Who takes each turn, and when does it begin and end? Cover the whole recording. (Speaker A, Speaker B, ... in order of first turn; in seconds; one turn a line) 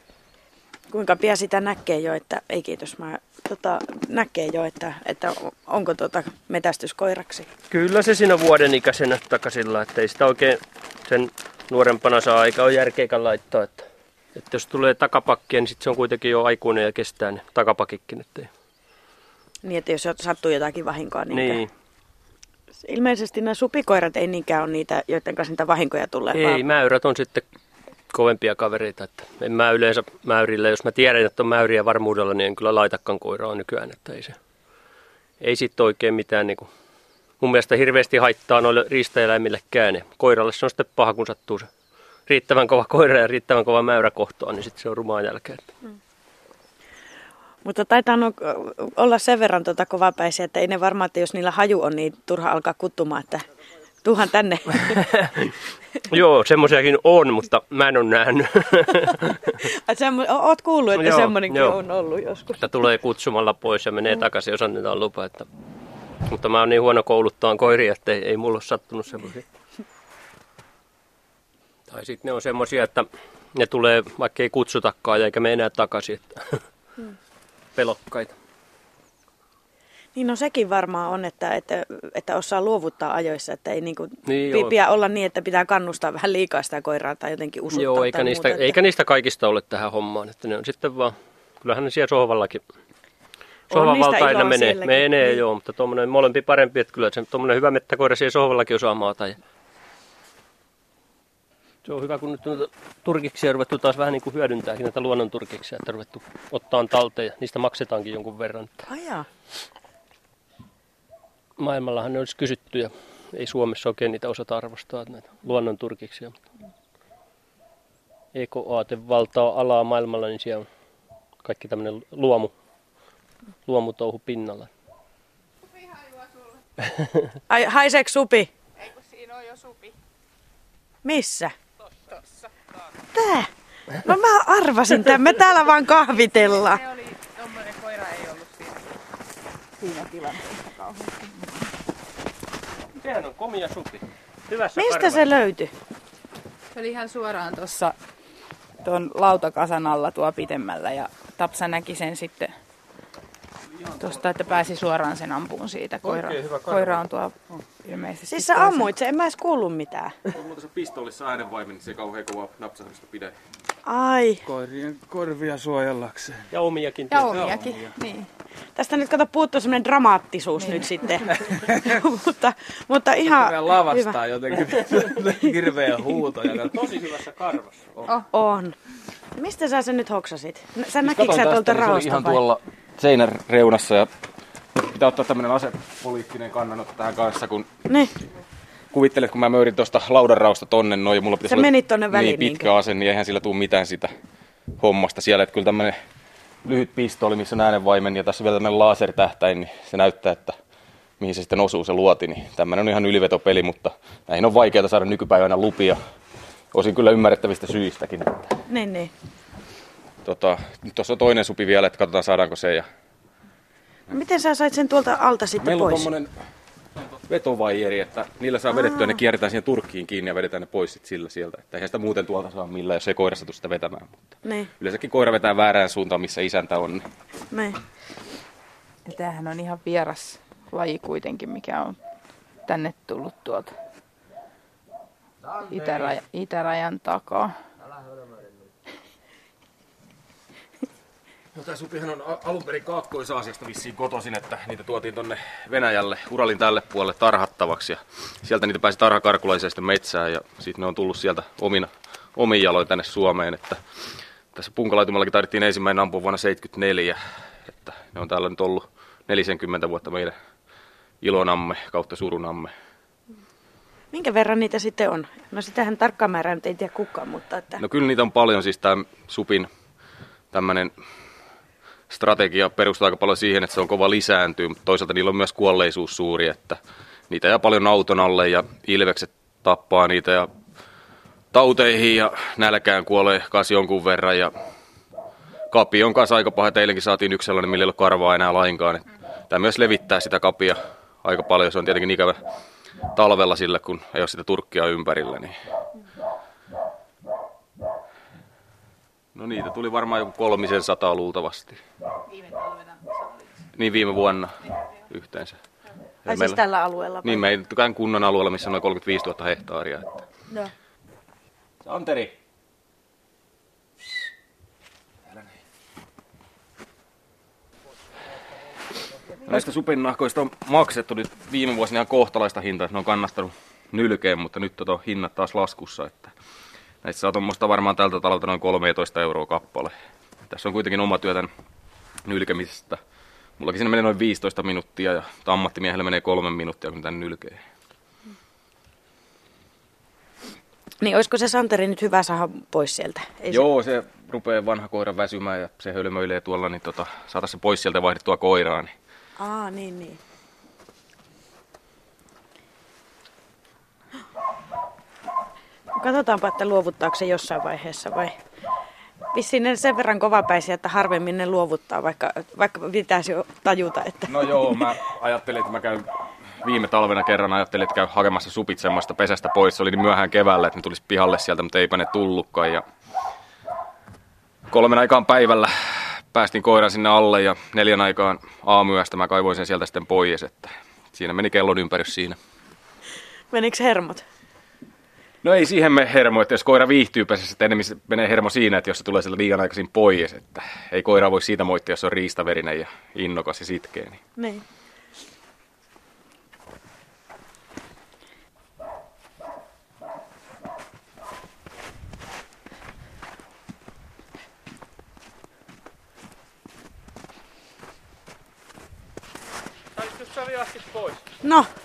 Speaker A: 0.9-7.5
Speaker B: 7.7-18.5
Speaker A: 19.6-21.6
Speaker B: 21.3-21.7
Speaker A: 22.8-26.6
Speaker B: 26.3-27.4
Speaker B: 28.1-34.4
Speaker B: 35.4-36.7
Speaker B: 37.4-41.7
Speaker B: 42.3-45.7
Speaker A: 47.6-53.5
Speaker A: 54.0-55.3
Speaker B: 54.9-55.5
Speaker B: 56.1-59.7
Speaker A: 59.6-62.6
Speaker B: 61.0-61.8
Speaker B: 62.6-65.5
Speaker B: 66.3-69.5
Speaker B: 71.9-76.6
Speaker B: 77.8-78.3
Speaker A: 80.2-88.8
Speaker B: 84.3-84.8
Speaker B: 87.7-92.6
Speaker A: 93.7-95.4
Speaker B: 93.7-99.4
Speaker B: 101.8-108.9
Speaker A: 108.9-109.3
Speaker B: 111.6-116.4
Speaker B: 118.3-120.7
Speaker B: 121.4-122.5
Speaker B: 123.7-124.7
Speaker B: 126.8-127.2
Speaker A: 127.5-128.5
Speaker C: 128.9-129.9
Speaker A: 131.0-131.5
Speaker A: 133.1-136.9
Speaker C: 136.7-138.8
Speaker C: 139.8-141.3
Speaker B: 143.0-145.3
Speaker A: 144.8-145.7
Speaker C: 146.7-148.0
Speaker C: 148.8-152.5
Speaker C: 154.0-158.9
Speaker D: 154.1-154.3
Speaker E: 156.0-157.6
Speaker A: 158.3-160.2
Speaker D: 160.3-163.3
Speaker A: 163.9-164.4
Speaker E: 164.4-166.5
Speaker B: 166.5-167.5
Speaker C: 167.1-168.3
Speaker E: 167.2-168.0
Speaker A: 168.8-174.2
Speaker E: 171.5-172.0
Speaker E: 173.2-177.0
Speaker B: 176.7-177.8
Speaker A: 178.3-178.8
Speaker A: 179.4-182.4
Speaker D: 181.0-184.1
Speaker D: 184.8-187.7
Speaker D: 188.9-194.1
Speaker A: 191.4-192.7
Speaker D: 194.8-196.0
Speaker D: 196.7-200.6
Speaker D: 201.2-206.0
Speaker D: 206.7-208.5
Speaker A: 208.7-209.1
Speaker D: 210.2-212.9
Speaker A: 214.1-216.1
Speaker D: 215.6-216.3
Speaker D: 217.3-227.1
Speaker A: 218.7-219.2
Speaker A: 224.4-224.7
Speaker A: 227.5-227.8
Speaker C: 229.1-232.0
Speaker C: 232.7-233.7
Speaker C: 235.6-237.5
Speaker D: 241.5-253.8
Speaker D: 254.5-260.4
Speaker D: 261.2-262.7
Speaker A: 264.1-267.8
Speaker D: 267.8-269.7
Speaker D: 270.5-270.9
Speaker D: 272.1-276.8
Speaker D: 277.3-280.5
Speaker D: 281.5-284.5
Speaker D: 285.7-292.4
Speaker D: 293.1-295.6
Speaker D: 299.4-301.8
Speaker D: 303.8-304.6
Speaker D: 305.1-305.6
Speaker D: 306.3-306.6
Speaker A: 306.3-307.5
Speaker D: 307.2-310.3
Speaker D: 311.8-312.4
Speaker D: 319.4-326.3
Speaker D: 327.0-329.9
Speaker D: 330.5-331.5
Speaker D: 332.2-333.0
Speaker D: 333.6-337.6
Speaker A: 341.0-343.7
Speaker D: 343.5-348.9
Speaker A: 349.4-350.2
Speaker A: 356.0-358.4
Speaker A: 359.3-364.8
Speaker D: 364.3-372.9
Speaker D: 374.7-382.4
Speaker A: 383.5-384.2
Speaker D: 385.4-394.2
Speaker A: 394.4-394.6
Speaker B: 410.0-411.2